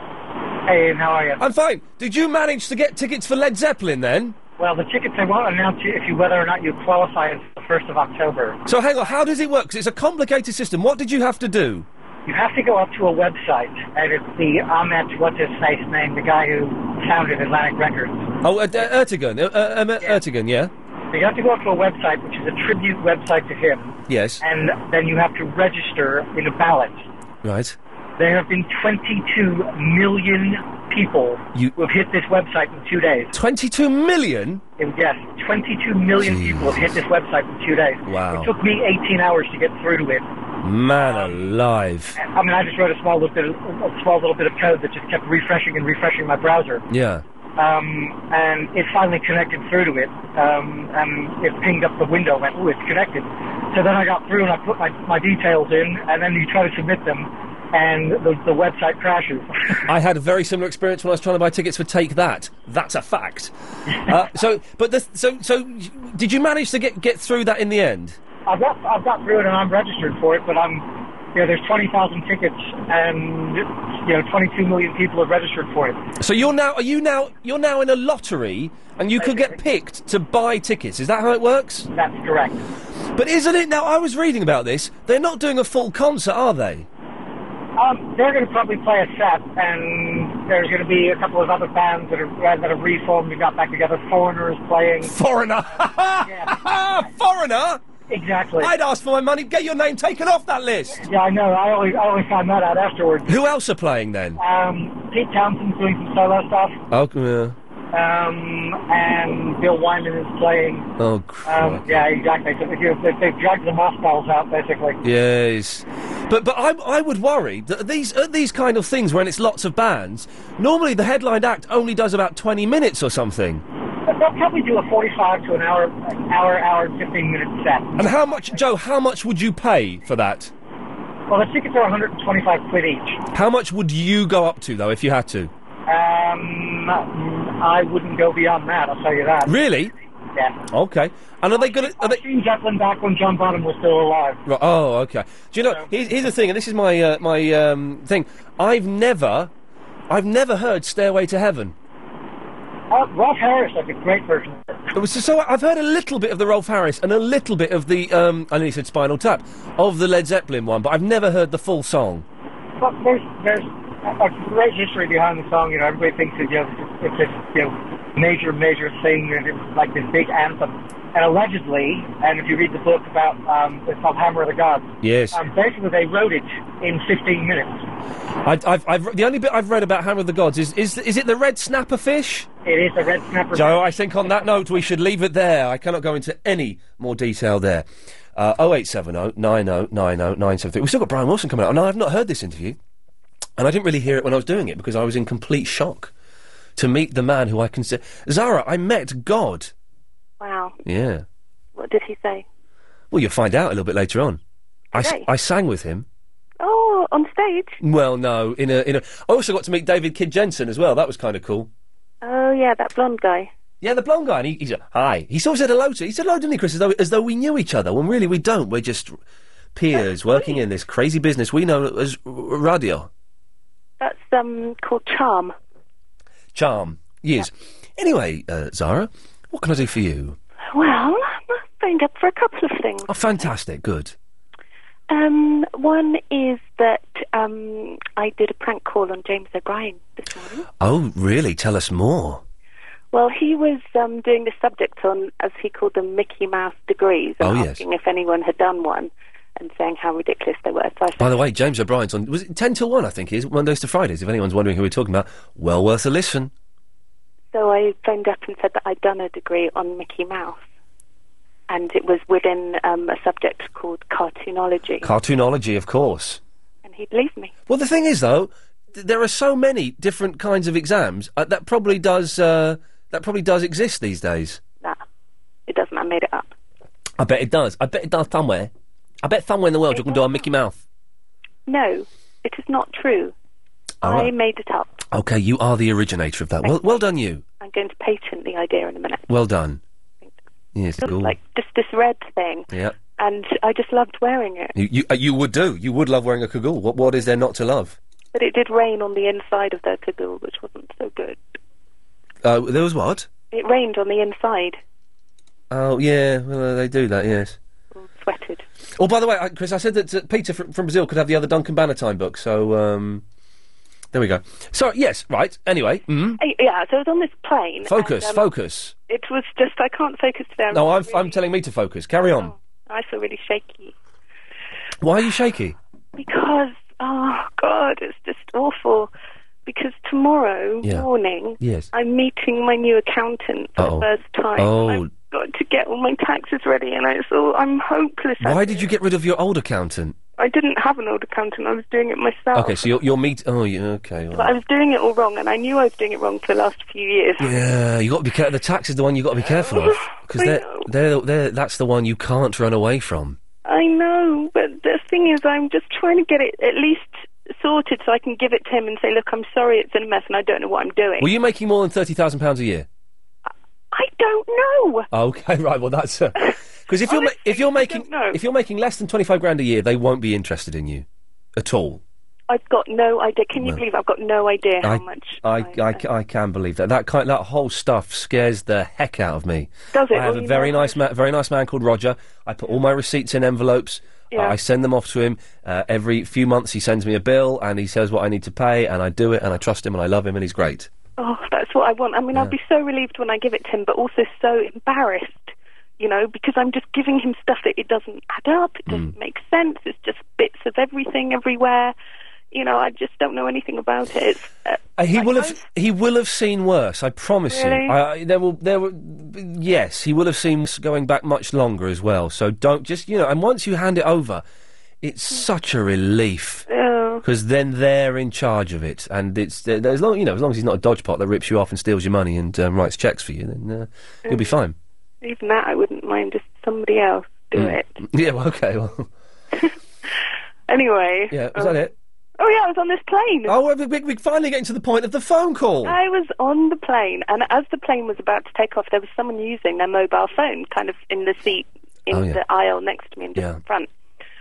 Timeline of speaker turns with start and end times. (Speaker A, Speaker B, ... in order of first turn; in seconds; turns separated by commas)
Speaker A: 0.7-1.4, Speaker B: 1.4-4.3, Speaker A: 4.6-8.6, Speaker B: 8.7-11.9, Speaker A: 12.3-18.3, Speaker B: 18.4-20.7, Speaker A: 21.1-27.0, Speaker B: 24.1-24.4, Speaker B: 27.4-27.8, Speaker A: 28.2-33.3, Speaker B: 33.3-34.6, Speaker A: 34.8-40.2, Speaker B: 36.2-37.0, Speaker B: 38.1-38.5, Speaker B: 40.6-42.2, Speaker A: 41.0-41.4, Speaker A: 42.1-46.8, Speaker B: 46.9-47.2, Speaker A: 47.6-59.8, Speaker B: 59.9-63.5, Speaker B: 64.0-68.2, Speaker A: 68.5-76.0, Speaker B: 76.2-81.9, Speaker A: 79.2-79.6, Speaker A: 81.9-82.6, Speaker B: 83.2-86.9, Speaker A: 87.8-95.1, Speaker B: 95.0-97.8, Speaker A: 96.2-96.6, Speaker A: 98.1-98.7, Speaker B: 98.6-101.0, Speaker A: 100.9-103.5, Speaker B: 103.3-104.4, Speaker A: 104.4-106.8, Speaker B: 106.9-107.5, Speaker A: 107.9-110.9, Speaker B: 111.0-112.0, Speaker A: 111.4-115.0, Speaker B: 115.0-123.6, Speaker A: 124.1-128.6, Speaker B: 128.0-130.5, Speaker A: 131.3-133.2, Speaker B: 133.3-135.5, Speaker A: 135.9-139.6, Speaker B: 139.5-139.9, Speaker B: 140.7-142.2, Speaker A: 141.5-144.4, Speaker B: 144.4-149.5, Speaker A: 145.6-145.9, Speaker B: 150.1-151.7, Speaker A: 152.9-154.8, Speaker B: 154.9-162.2, Speaker A: 162.8-177.8, Speaker B: 175.0-175.4, Speaker B: 178.4-182.5, Speaker A: 182.6-183.9, Speaker B: 183.5-192.8, Speaker B: 193.6-196.1, Speaker B: 196.8-199.7, Speaker C: 200.4-200.8, Speaker B: 200.8-201.2, Speaker C: 201.8-202.4, Speaker B: 203.1-204.4, Speaker C: 204.9-205.2, Speaker B: 204.9-206.1, Speaker C: 206.6-207.7, Speaker B: 207.8-211.7, Speaker C: 212.2-213.5, Speaker B: 213.8-219.2, Speaker B: 219.7-223.1, Speaker C: 219.9-220.6, Speaker C: 224.0-225.5, Speaker B: 226.5-230.3, Speaker C: 230.7-233.5, Speaker B: 233.1-234.1, Speaker C: 235.1-240.7, Speaker B: 240.8-242.4, Speaker C: 243.1-251.4, Speaker B: 247.4-247.8, Speaker B: 251.2-256.5, Speaker C: 257.5-260.6, Speaker C: 261.7-265.1, Speaker B: 265.0-266.4, Speaker C: 266.8-267.5, Speaker B: 267.7-274.6, Speaker C: 275.7-276.5, Speaker B: 277.2-278.7, Speaker B: 279.2-280.8, Speaker C: 279.9-280.4, Speaker C: 281.7-283.3, Speaker B: 284.0-284.3, Speaker C: 284.0-285.0, Speaker B: 285.1-287.4, Speaker C: 286.6-289.3, Speaker B: 289.3-289.8, Speaker B: 290.7-291.3, Speaker C: 291.0-294.7, Speaker B: 294.7-297.9, Speaker C: 298.3-301.4, Speaker B: 302.4-303.3, Speaker C: 303.5-304.8, Speaker B: 305.7-307.6, Speaker C: 307.9-308.6, Speaker B: 309.0-313.2, Speaker B: 314.1-316.4, Speaker C: 316.4-318.4, Speaker B: 317.9-318.9, Speaker C: 319.1-321.4, Speaker B: 320.7-322.5, Speaker C: 322.3-323.9, Speaker B: 325.0-325.8, Speaker C: 326.1-329.1, Speaker C: 329.6-338.9, Speaker B: 330.8-331.1, Speaker B: 331.6-331.9, Speaker B: 333.8-335.1, Speaker B: 338.4-340.1, Speaker C: 340.4-342.9, Speaker B: 342.5-344.6, Speaker C: 344.3-347.6, Speaker B: 347.4-353.4, Speaker C: 349.4-350.9, Speaker C: 353.6-361.3, Speaker B: 361.2-362.9, Speaker C: 363.9-365.1, Speaker B: 365.1-371.0, Speaker C: 367.1-368.4, Speaker B: 371.6-372.0, Speaker C: 372.5-376.0, Speaker B: 373.6-373.8, Speaker B: 374.8-390.9, Speaker C: 379.9-381.1, Speaker C: 384.3-384.6, Speaker C: 391.2-401.9, Speaker B: 398.9-399.1, Speaker C: 402.5-405.6, Speaker B: 405.0-414.4, Speaker C: 407.5-407.9, Speaker B: 415.0-416.6, Speaker C: 416.7-417.2, Speaker B: 417.2-424.7, Speaker C: 424.3-424.6, Speaker C: 425.2-427.9, Speaker B: 427.5-429.1, Speaker C: 430.7-431.9, Speaker B: 431.3-431.9, Speaker C: 432.4-433.6, Speaker B: 433.5-436.0, Speaker C: 435.8-443.9, Speaker B: 442.1-442.4, Speaker B: 443.3-443.6